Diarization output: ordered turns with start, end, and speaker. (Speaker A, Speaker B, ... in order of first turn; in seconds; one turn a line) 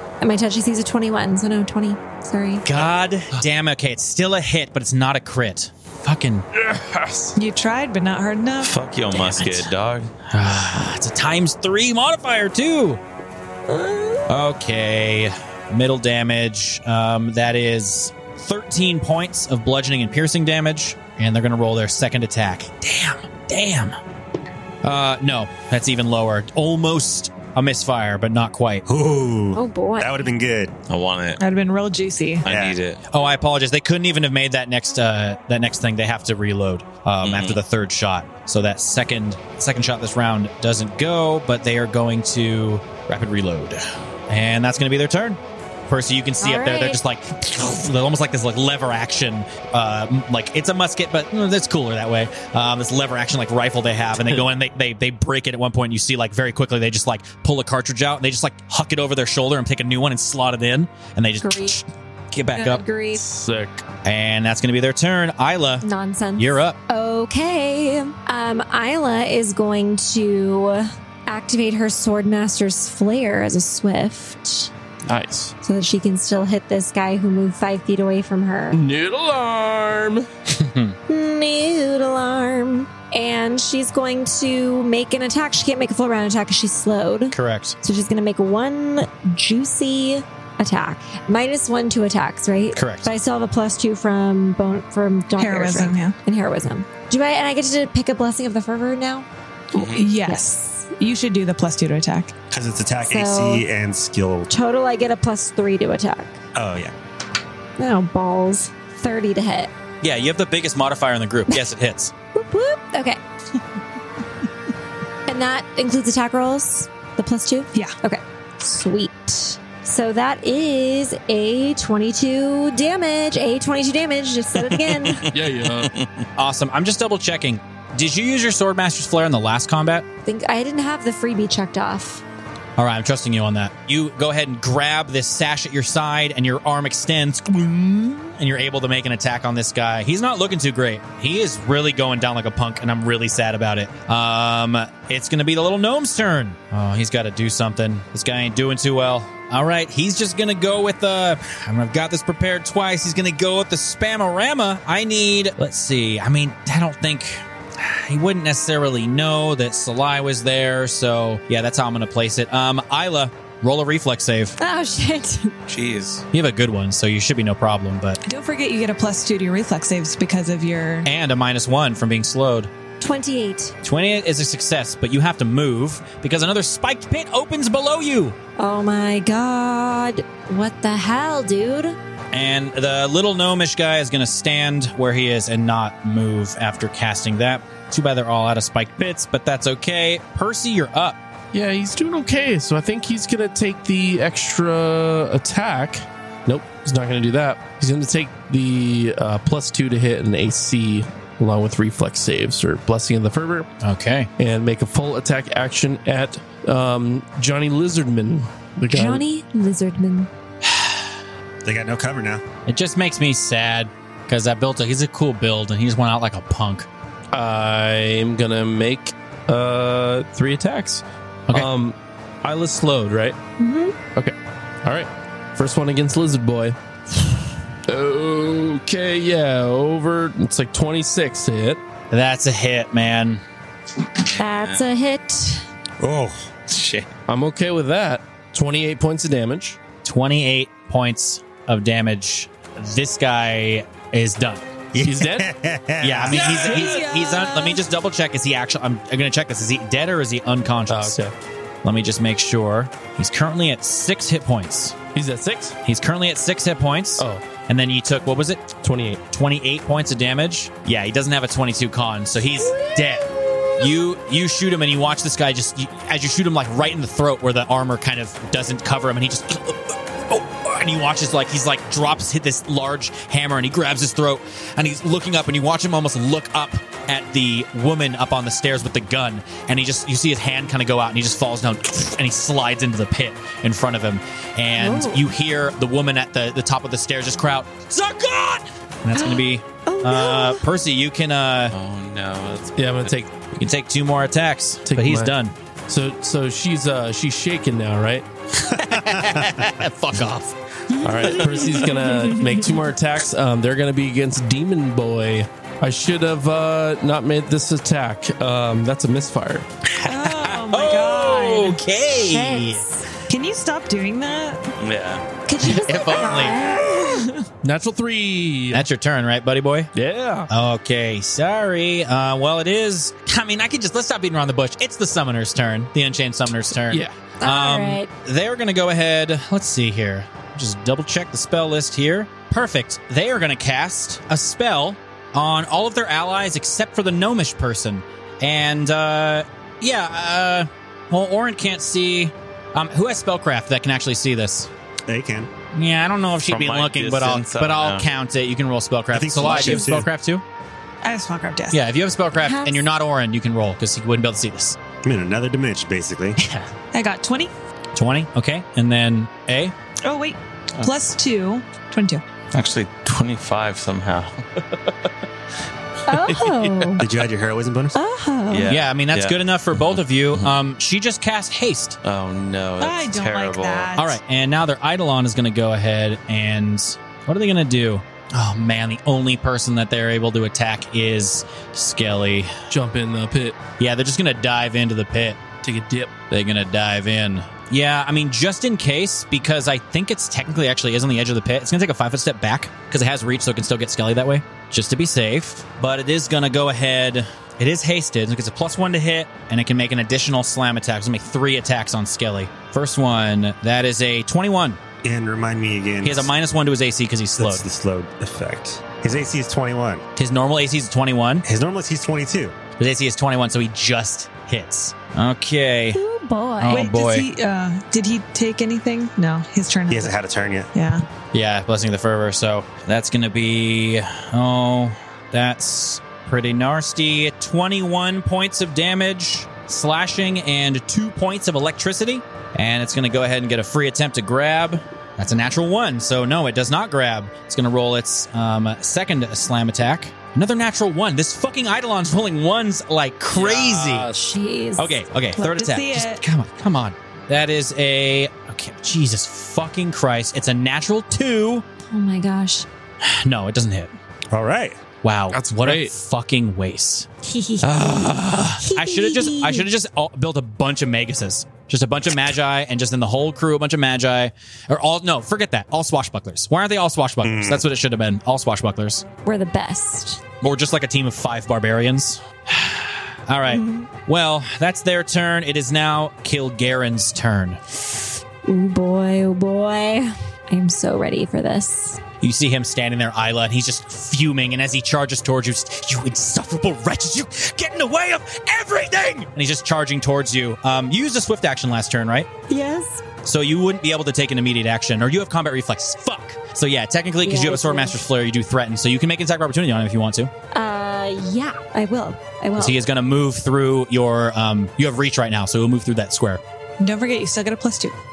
Speaker A: 0.2-2.7
Speaker B: 2.6-6.5
Speaker C: 6.5-7.3
Speaker D: 7.4-9.4
Speaker E: 8.6-10.1
Speaker B: 10.3-13.0
Speaker A: 13.7-14.3
Speaker B: 14.3-24.0
Speaker B: 24.8-28.9
Speaker F: 28.9-30.8
Speaker A: 29.5-30.3
Speaker E: 30.9-31.4
Speaker D: 31.4-32.5
Speaker E: 32.5-33.0
Speaker F: 32.5-32.8
Speaker B: 33.1-62.9
Speaker E: 37.2-37.6
Speaker A: 46.4-47.0
Speaker A: 61.4-61.8
Speaker A: 62.5-63.2
Speaker C: 63.1-63.8
Speaker B: 64.0-65.8
Speaker A: 65.8-74.7
Speaker B: 66.4-66.8
Speaker C: 75.1-75.5
Speaker A: 75.6-78.8
Speaker C: 78.7-80.3
Speaker B: 80.5-81.0
Speaker A: 81.1-99.3
Speaker B: 87.3-87.8
Speaker B: 92.8-93.1
Speaker D: 95.4-96.2
Speaker D: 99.7-102.3
Speaker E: 99.8-100.0
Speaker A: 99.8-100.8
Speaker F: 102.5-104.5
Speaker A: 103.0-103.7
Speaker A: 104.5-106.4
Speaker F: 106.5-106.9
Speaker A: 107.8-109.7
Speaker B: 110.0-112.1
Speaker A: 112.3-113.2
Speaker A: 115.3-125.3
Speaker E: 125.2-126.2
Speaker C: 125.3-125.9
Speaker B: 126.4-130.1
Speaker A: 130.2-132.2
Speaker B: 132.8-164.6
Speaker A: 164.6-165.5
Speaker E: 165.7-166.2
Speaker B: 166.3-168.2
Speaker D: 168.2-171.1
Speaker B: 171.1-172.7
Speaker A: 173.0-173.7
Speaker B: 173.8-178.4
Speaker A: 178.6-182.0
Speaker B: 182.3-191.2
Speaker C: 191.5-203.7
Speaker B: 203.8-204.3
Speaker C: 204.4-209.2
Speaker A: 208.9-210.3
Speaker B: 210.7-211.0
Speaker F: 211.6-212.4
Speaker B: 212.7-216.9
Speaker C: 217.3-223.4
Speaker A: 223.6-224.0
Speaker C: 224.2-226.8
Speaker C: 227.9-231.8
Speaker B: 232.1-233.4
Speaker A: 234.4-235.7
Speaker E: 234.6-234.8
Speaker F: 236.0-236.5
Speaker E: 236.7-237.1
Speaker C: 237.3-239.8
Speaker B: 240.0-244.7
Speaker F: 244.9-246.7
Speaker C: 245.0-245.5
Speaker B: 246.0-251.2
Speaker D: 246.3-247.8
Speaker C: 250.9-251.3
Speaker B: 251.8-255.0
Speaker C: 255.1-255.8
Speaker B: 255.8-258.7
Speaker C: 257.2-257.5
Speaker C: 258.8-259.2
Speaker B: 259.3-291.8
Speaker A: 262.7-263.1
Speaker A: 284.8-285.3
Speaker A: 289.1-290.6
Speaker E: 291.7-293.2
Speaker C: 292.8-293.3
Speaker B: 293.6-295.5
Speaker C: 294.9-295.4
Speaker C: 295.9-298.3
Speaker B: 298.6-300.6
Speaker F: 299.1-299.4
Speaker C: 301.0-309.7
Speaker D: 301.2-302.8
Speaker B: 309.9-312.9
Speaker D: 310.1-312.0
Speaker A: 312.0-313.1
Speaker D: 313.3-314.7
Speaker E: 314.8-315.2
Speaker A: 315.5-317.3
Speaker D: 315.6-317.4
Speaker B: 315.7-316.7
Speaker C: 317.6-318.9
Speaker B: 318.7-319.9
Speaker C: 319.9-320.5
Speaker B: 320.5-344.7
Speaker C: 326.7-327.1
Speaker A: 327.4-328.1
Speaker F: 345.1-345.5
Speaker B: 345.7-350.4
Speaker E: 346.5-348.1
Speaker F: 349.1-350.1
Speaker D: 351.0-351.8
Speaker B: 351.7-354.8
Speaker A: 352.4-352.8
Speaker F: 355.0-356.4
Speaker B: 356.4-356.7
Speaker D: 356.9-357.5
Speaker B: 357.9-359.7
Speaker D: 360.0-362.2
Speaker E: 362.5-364.5
Speaker A: 366.1-367.0
Speaker C: 366.3-366.9
Speaker F: 367.0-368.0
Speaker A: 367.9-368.7
Speaker E: 368.5-370.6
Speaker B: 368.7-372.0
Speaker E: 372.0-374.0
Speaker D: 372.8-374.2
Speaker B: 374.0-382.5
Speaker C: 382.7-383.6
Speaker B: 383.8-385.4
Speaker C: 385.6-386.2
Speaker B: 386.3-404.8
Speaker F: 405.0-406.3
Speaker B: 406.0-407.6
Speaker F: 407.4-410.0
Speaker B: 410.2-411.4
Speaker F: 411.4-412.6
Speaker B: 412.8-416.0
Speaker A: 415.9-416.9
Speaker B: 416.6-417.3
Speaker D: 416.7-420.1
Speaker F: 419.9-420.7
Speaker D: 420.7-421.0
Speaker B: 421.3-444.1
Speaker C: 443.3-444.2
Speaker A: 444.1-445.1
Speaker B: 444.8-451.6
Speaker D: 445.4-446.2
Speaker A: 451.9-452.7
Speaker B: 453.0-453.9
Speaker F: 454.3-454.8
Speaker B: 455.0-457.1
Speaker C: 455.3-455.9
Speaker A: 457.2-459.7
Speaker C: 457.7-458.5
Speaker B: 457.8-469.1
Speaker F: 467.2-467.6
Speaker A: 469.2-470.2
Speaker B: 470.4-477.6
Speaker A: 473.5-473.9
Speaker A: 477.7-482.0
Speaker B: 482.2-492.3
Speaker A: 492.5-493.0
Speaker B: 493.2-500.3
Speaker A: 497.2-498.0
Speaker A: 500.5-502.8
Speaker B: 502.6-506.4
Speaker D: 506.8-507.9